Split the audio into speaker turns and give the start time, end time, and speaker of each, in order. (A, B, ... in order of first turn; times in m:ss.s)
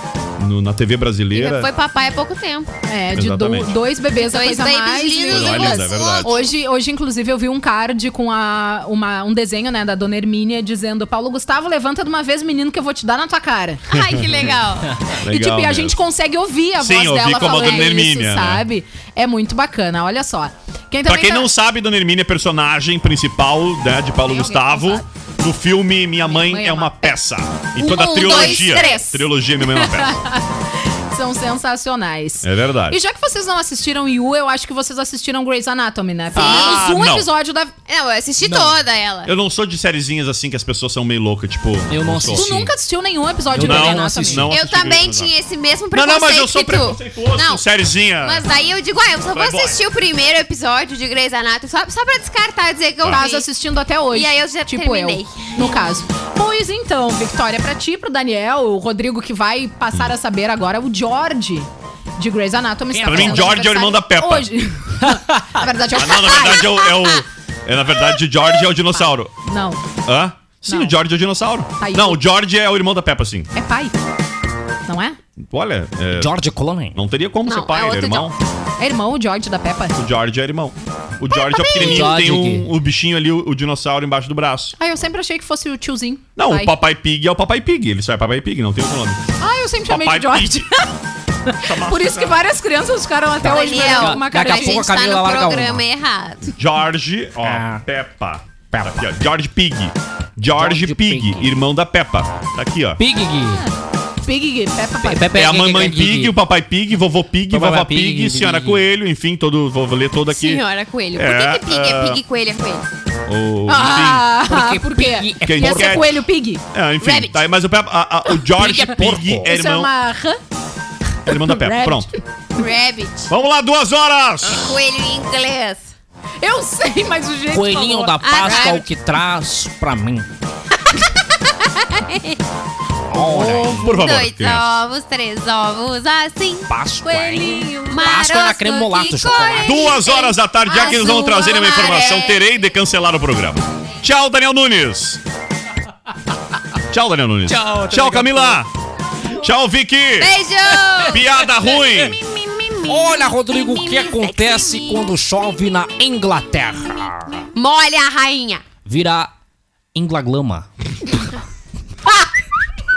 0:00.4-0:01.7 A
0:01.3-0:02.7 B
0:02.8-0:13.9 C
0:03.1-0:03.7 A
0:04.1-0:06.5 B
0:05.3-0:06.4 A
0:13.9-0:15.0 B
0:13.9-0:14.3 A
0:15.2-0:16.0 A
0:15.2-0:21.5 C
0:16.8-0:18.6 A
0:17.3-0:17.9 B
0:21.0-0:30.2 A
0:24.3-0:25.0 C
0:26.2-0:27.1 C
0:27.8-0:37.7 C
0:27.9-0:29.0 B
0:32.4-0:33.0 A
0:36.3-0:36.8 B
0:36.3-0:37.3 A
0:37.9-0:39.3 B
0:38.4-0:38.8 D
0:39.2-0:42.5 A
0:41.9-0:42.7 D
0:42.3-0:44.5 C
0:43.5-0:44.5 D
0:43.5-0:45.3 A
0:44.5-0:47.6 B
0:45.9-0:48.4 A
0:48.2-0:53.5 B
0:49.3-0:49.8 A
0:53.0-0:53.3 A
0:53.1-1:06.9 C
0:54.1-0:56.1 B
1:02.9-1:03.6 D
1:03.0-1:04.5 A
1:05.9-1:09.3 A
1:06.3-1:07.2 B
1:08.9-1:09.8 C
1:10.0-1:13.5 A
1:10.6-1:11.0 C
1:11.8-1:12.2 C
1:13.5-1:13.9 C
1:14.9-1:15.2 C
1:15.5-1:16.4 A
1:16.1-1:17.0 D
1:16.9-1:18.4 A
1:17.4-1:18.3 B
1:18.8-1:20.0 C
1:19.9-1:24.7 A
1:21.3-1:22.1 C
1:21.7-1:22.7 D
1:24.8-1:26.8 C
1:26.4-1:29.4 A
1:29.4-1:30.9 C
1:29.9-1:30.7 A
1:31.4-1:34.8 C
1:31.6-1:32.4 A
1:33.4-1:35.8 D
1:33.4-1:36.5 B
1:36.6-1:43.0 A
1:37.4-1:37.8 D
1:38.7-1:39.1 D
1:40.6-1:41.6 D
1:43.0-1:43.6 D
1:43.3-1:43.7 C
1:44.2-1:45.3 C
1:45.0-1:46.3 D
1:45.3-1:52.2 A
1:47.5-1:48.8 D
1:50.3-1:52.8 B
1:53.3-1:54.3 A
1:53.7-1:56.6 C
1:53.9-1:56.1 D
1:55.4-1:59.9 A
1:57.0-1:57.4 B
1:58.6-1:59.4 D
1:58.9-2:00.4 C
2:01.2-2:02.1 A
2:01.3-2:02.2 C
2:02.6-2:03.3 B
2:03.3-2:04.8 A
2:04.5-2:05.9 B
2:06.4-2:08.8 C
2:07.5-2:10.3 D
2:08.2-2:08.8 B
2:11.5-2:12.4 B
2:13.1-2:13.9 D
2:13.4-2:16.7 B
2:13.7-2:14.8 A
2:16.7-2:19.9 D
2:17.0-2:18.3 C
2:17.9-2:22.5 B
2:19.6-2:25.2 A
2:26.9-2:28.7 A
2:27.5-2:28.6 D
2:29.3-2:30.4 A
2:30.2-2:31.2 B
2:31.0-2:32.2 A
2:32.2-2:35.0 B
2:32.8-2:37.3 D
2:37.5-2:38.6 B
2:38.8-2:39.3 D
2:39.9-2:40.7 D